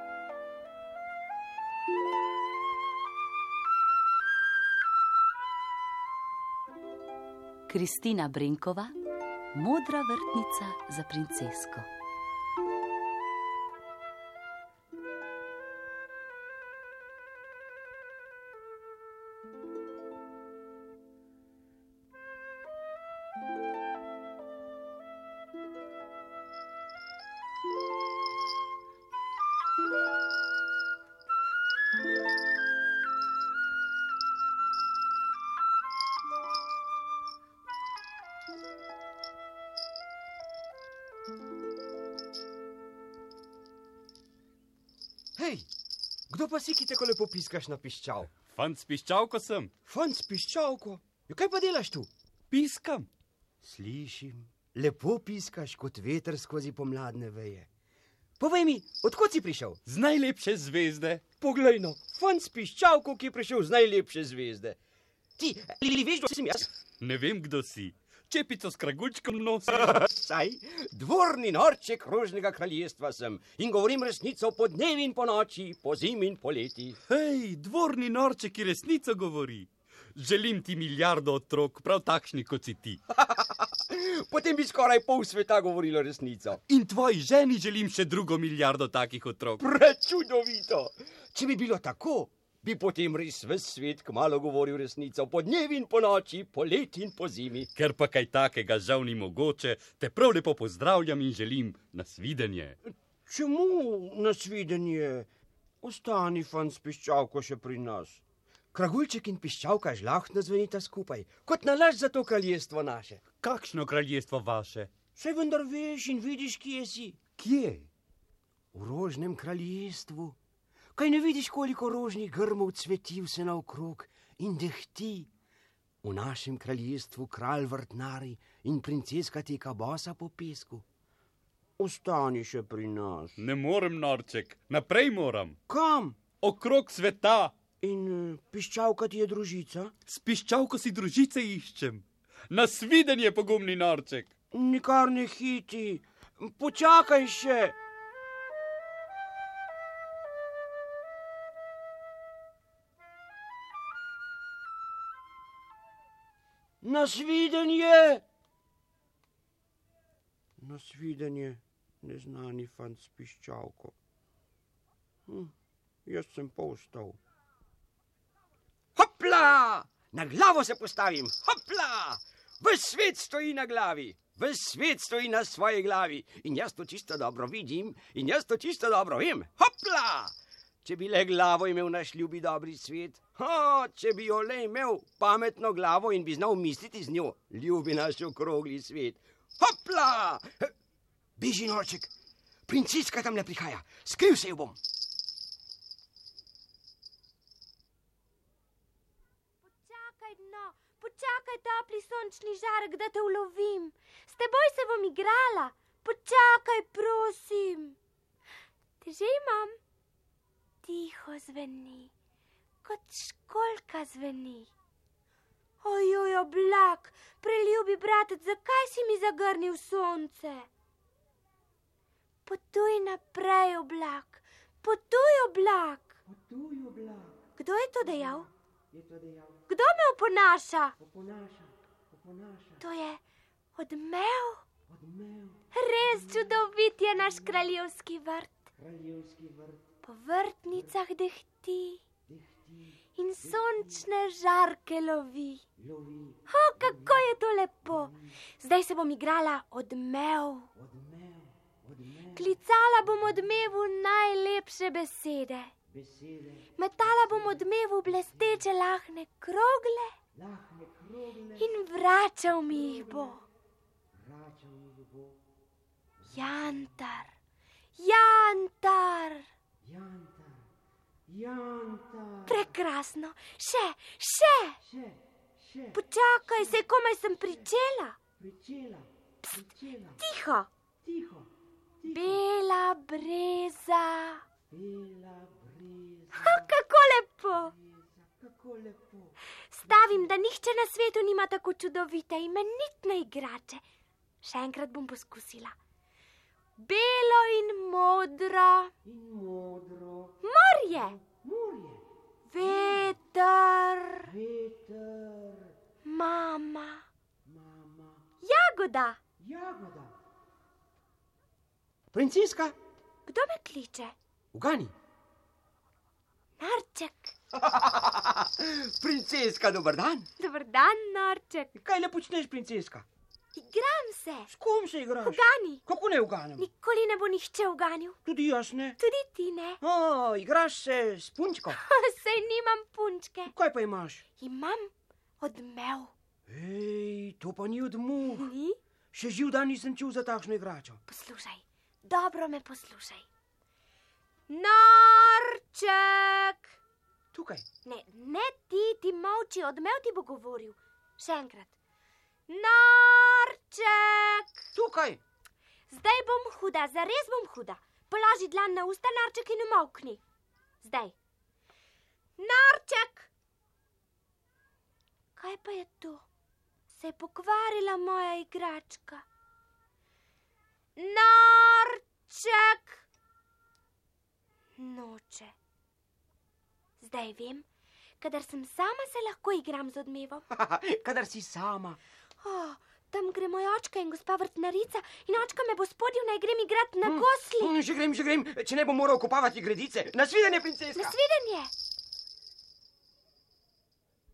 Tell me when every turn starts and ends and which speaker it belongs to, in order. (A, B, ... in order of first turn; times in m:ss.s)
0:07.7-0:08.9 A
0:09.5-0:11.9 A
0:45.4-0:45.7 B
0:46.3-0:48.3 B
0:48.4-0:49.7 C
0:49.8-0:52.1 B
0:52.5-0:53.1 C
0:53.6-0:57.7 B
0:58.4-0:59.8 B
0:59.8-1:01.3 C
1:01.3-1:04.8 B
1:05.4-1:06.7 B
1:07.0-1:10.1 C
1:09.7-1:17.0 B
1:17.1-1:23.0 C
1:23.2-1:26.6 B
1:26.7-1:29.6 C
1:29.6-1:37.7 B
1:37.8-1:42.8 C
1:43.3-1:45.3 B
1:45.8-1:48.2 B
1:48.7-1:53.2 B
1:53.4-1:54.9 C
1:55.1-1:57.2 B
1:57.4-1:57.9 C
1:58.7-2:00.4 B
2:01.0-2:05.3 B
2:06.0-2:10.8 B
2:11.8-2:13.4 B
2:13.4-2:15.6 C
2:15.7-2:16.2 B
2:16.4-2:17.5 C
2:17.8-2:19.9 B
2:20.1-2:24.3 C
2:24.5-2:27.8 B
2:36.8-2:38.2 B
2:40.6-2:43.9 B
2:45.3-2:45.5 B
2:46.1-2:47.2 B
2:49.0-3:10.7 B
3:11.4-3:12.1 B
3:12.7-3:14.8 B
3:19.6-3:28.0 D
3:29.0-3:29.8 D
3:30.8-3:32.1 D
3:32.8-3:34.7 D
3:35.8-3:40.7 D
3:42.4-3:46.2 D
3:46.3-3:47.4 B
3:47.6-3:48.5 D
3:48.9-3:49.6 B
3:49.7-3:51.0 D
3:51.0-3:52.8 B
3:52.8-3:53.2 D
3:53.8-3:54.6 D
3:54.9-3:55.6 B
3:55.7-3:58.7 D
3:58.8-3:59.8 B
4:00.0-4:02.0 D
4:02.3-4:04.0 B
4:03.2-4:05.6 D
4:05.8-4:07.2 B
4:06.5-4:10.7 D
4:10.8-4:12.5 B
4:12.3-4:15.7 D
4:15.9-4:16.7 B
4:16.8-4:20.1 D
4:20.3-4:21.7 B
4:21.6-4:23.4 D
4:22.7-4:23.4 B
4:24.2-4:25.4 B
4:26.3-4:27.3 D
4:28.0-4:29.5 D
4:29.8-4:30.6 B
4:31.3-4:32.7 B
4:32.4-4:34.8 D
4:34.8-4:36.0 B
4:35.9-4:38.2 D
4:38.4-4:40.2 B
4:40.2-4:40.7 D
4:41.0-4:41.5 B
4:42.0-4:42.4 B
4:42.0-4:44.4 D
4:44.7-4:46.7 B
4:46.3-4:47.7 D
4:47.7-4:49.3 B
4:49.7-4:53.8 D
4:49.8-4:50.2 B
4:54.4-4:55.8 D
4:56.8-4:58.9 D
4:59.0-5:00.4 B
5:00.4-5:01.2 D
5:00.9-5:02.0 B
5:02.5-5:04.3 D
5:02.6-5:03.1 B
5:04.2-5:05.7 B
5:06.0-5:07.0 D
5:07.4-5:08.2 B
5:08.4-5:09.2 D
5:09.4-5:10.1 B
5:12.1-5:12.7 B
5:13.2-5:14.1 D
5:14.5-5:14.9 B
5:16.6-5:17.3 D
5:17.6-5:20.3 B
5:20.4-5:21.7 D
5:21.7-5:23.0 B
5:23.5-5:24.5 D
5:24.5-5:26.6 B
5:25.2-5:25.8 D
5:26.6-5:28.2 D
5:28.2-5:29.0 B
5:29.0-5:29.8 D
5:29.8-5:31.8 B
5:31.7-5:33.5 D
5:33.5-5:34.2 B
5:34.4-5:36.1 D
5:36.5-5:38.5 B
5:38.3-5:38.8 D
5:39.1-5:41.0 B
5:41.1-5:43.3 D
5:44.5-5:46.8 D
5:47.3-5:47.6 B
5:47.8-5:51.7 D
5:52.5-5:54.6 D
5:54.8-5:55.2 B
5:55.9-6:00.2 D
6:00.8-6:01.1 D
6:02.4-6:03.3 D
6:05.4-6:06.2 D
6:06.9-6:09.2 D
6:11.0-6:13.0 D
6:14.8-6:15.5 D
6:17.0-6:17.6 D
6:18.2-6:20.4 D
6:20.5-6:22.0 B
6:22.4-6:27.7 D
6:27.0-6:31.2 B
6:31.0-6:31.7 D